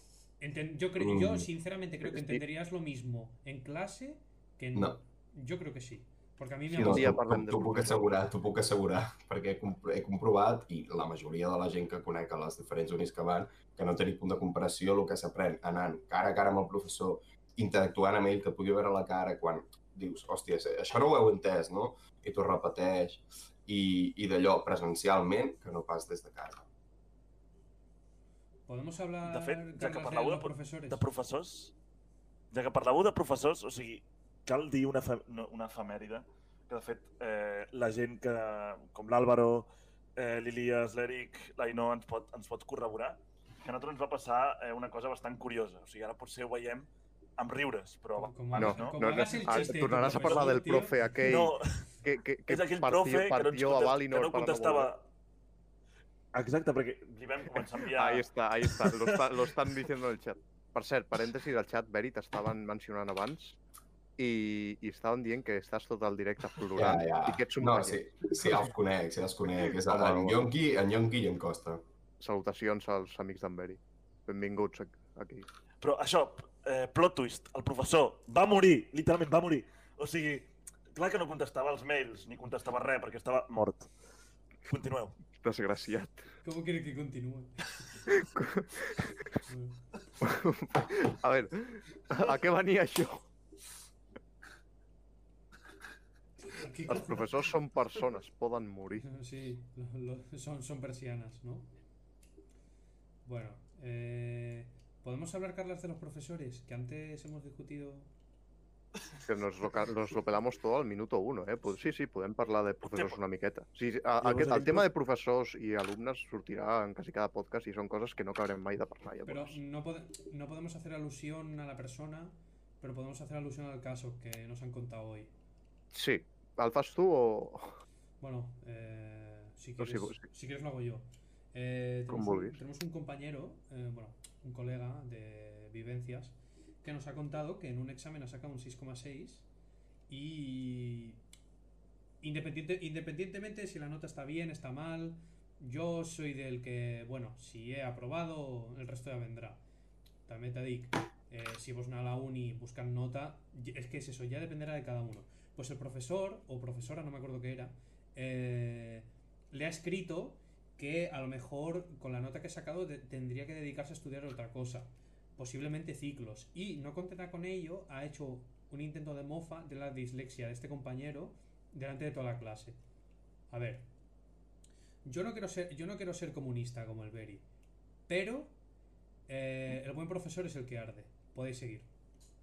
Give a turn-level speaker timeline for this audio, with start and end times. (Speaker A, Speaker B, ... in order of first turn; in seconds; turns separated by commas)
Speaker A: 0.4-7.2, Speaker B: 1.0-1.5, Speaker C: 2.1-2.4, Speaker B: 6.7-26.7, Speaker C: 6.8-8.1, Speaker A: 28.7-31.0, Speaker D: 29.2-31.7, Speaker D: 32.5-51.8, Speaker A: 48.2-51.1, Speaker C: 48.6-54.9, Speaker D: 52.5-55.1, Speaker D: 56.3-59.5, Speaker C: 57.9-63.6, Speaker C: 64.2-68.7, Speaker B: 66.8-71.8, Speaker C: 69.6-70.4, Speaker C: 72.2-75.5, Speaker D: 75.8-83.9, Speaker D: 84.7-85.2, Speaker C: 85.4-86.2, Speaker A: 86.4-87.9, Speaker C: 88.0-89.3, Speaker A: 89.5-89.8, Speaker C: 90.2-93.3, Speaker A: 96.5-97.4, Speaker C: 96.9-99.1, Speaker A: 99.0-101.7, Speaker A: 103.2-108.1, Speaker C: 109.3-119.6, Speaker D: 112.9-113.2, Speaker D: 114.2-114.9, Speaker A: 119.2-125.3, Speaker C: 125.9-127.7, Speaker A: 128.2-139.5, Speaker C: 129.8-130.2, Speaker C: 132.1-132.6, Speaker A: 140.1-141.2, Speaker A: 142.2-149.6, Speaker A: 150.3-172.8, Speaker A: 173.5-173.9, Speaker A: 175.1-177.4, Speaker A: 178.1-178.5, Speaker A: 179.3-181.9